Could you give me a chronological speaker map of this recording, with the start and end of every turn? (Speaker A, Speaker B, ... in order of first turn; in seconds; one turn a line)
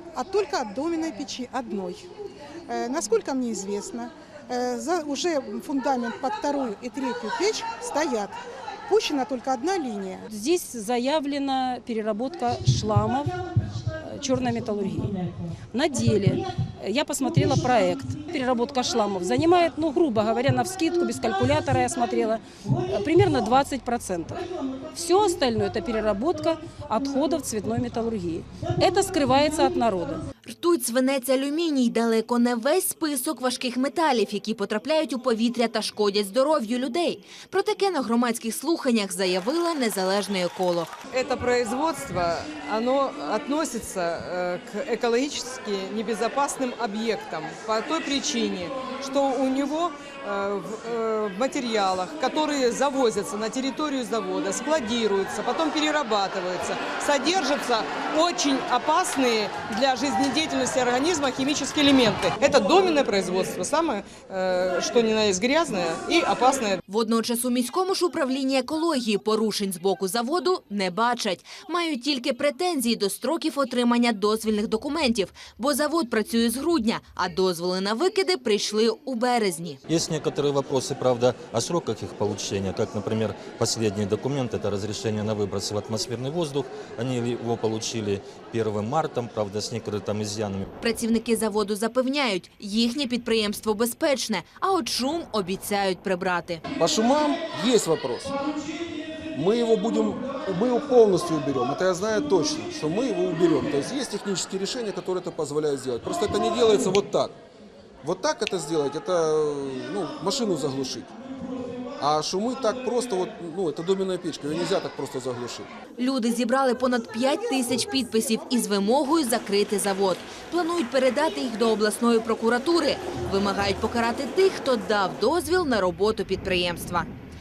Speaker A: 0.1-2.0
Speaker A: 2.7-10.3
Speaker B: 10.3-30.2
Speaker C: 30.4-40.9
Speaker D: 41.1-66.8
Speaker C: 66.9-79.8
Speaker E: 79.9-90.7
Speaker C: 90.8-96.6
Speaker F: 96.8-98.3
Speaker F: 99.3-107.4
Speaker F: 108.0-111.1
Speaker F: 112.0-115.7
Speaker C: 116.0-127.1